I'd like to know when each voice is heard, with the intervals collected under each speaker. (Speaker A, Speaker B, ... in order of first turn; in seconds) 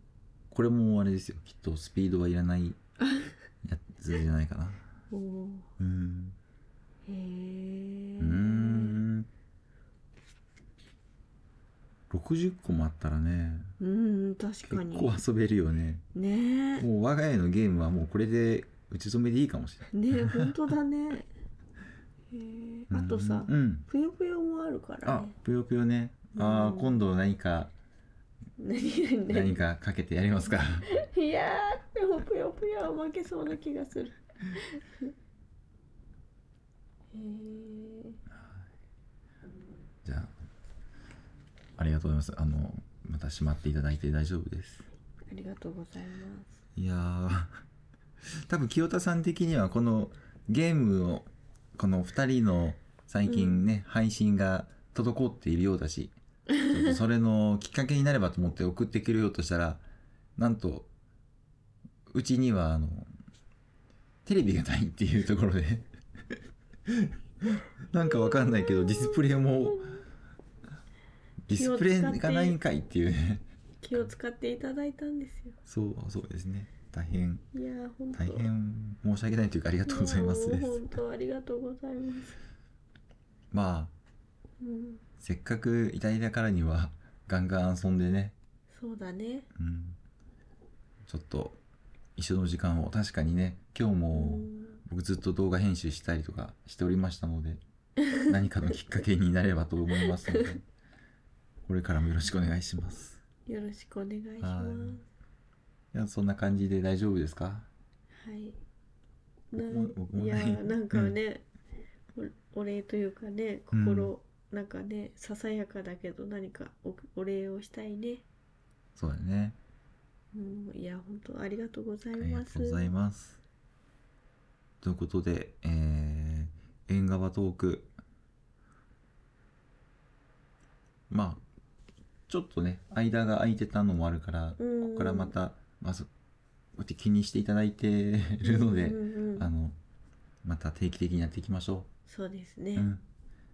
Speaker A: 0.5-2.8, 3.6-4.8, 5.8-6.4, 8.2-9.3, 12.1-13.7, 14.7-16.0, 16.8-20.5, 22.9-23.9, 25.0-27.7, 29.3-30.9, 38.4-38.6, 40.0-40.3, 41.8-44.9, 46.8-47.6, 48.5-59.9, 60.4-60.9, 62.1-63.1, 64.2-65.9, 66.9-70.0, 71.5-74.1, 75.7-77.5, 78.1-81.0, 83.5-83.9, 85.2-88.3, 89.5-90.0, 91.0-91.6, 92.2-97.6, 98.2-100.6, 101.7-103.2, 104.4-105.0, 105.9-107.7, 109.5-111.2, 113.7-114.1, 119.0-119.6, 122.2-123.4, 124.8-127.9, 131.1-131.4, 132.3-136.1, 136.8-139.8, 140.4-141.9, 142.8-143.0
Speaker B: 3.0-3.3, 5.1-5.7, 7.0-9.0, 13.8-15.1, 16.1-16.9, 19.9-21.3, 22.3-25.4, 26.4-27.0, 28.6-29.6, 30.9-35.1, 37.1-38.2, 45.3-46.5, 53.2-53.6, 68.0-70.0, 71.5-72.6, 73.8-75.6, 77.5-78.5, 79.8-82.4, 84.6-85.0, 88.7-89.5, 94.1-94.8, 100.0-100.4, 103.5-105.0, 108.2-108.6, 109.5-111.5, 112.1-118.2, 120.3-122.9, 134.6-135.4, 138.4-139.5, 142.1-142.9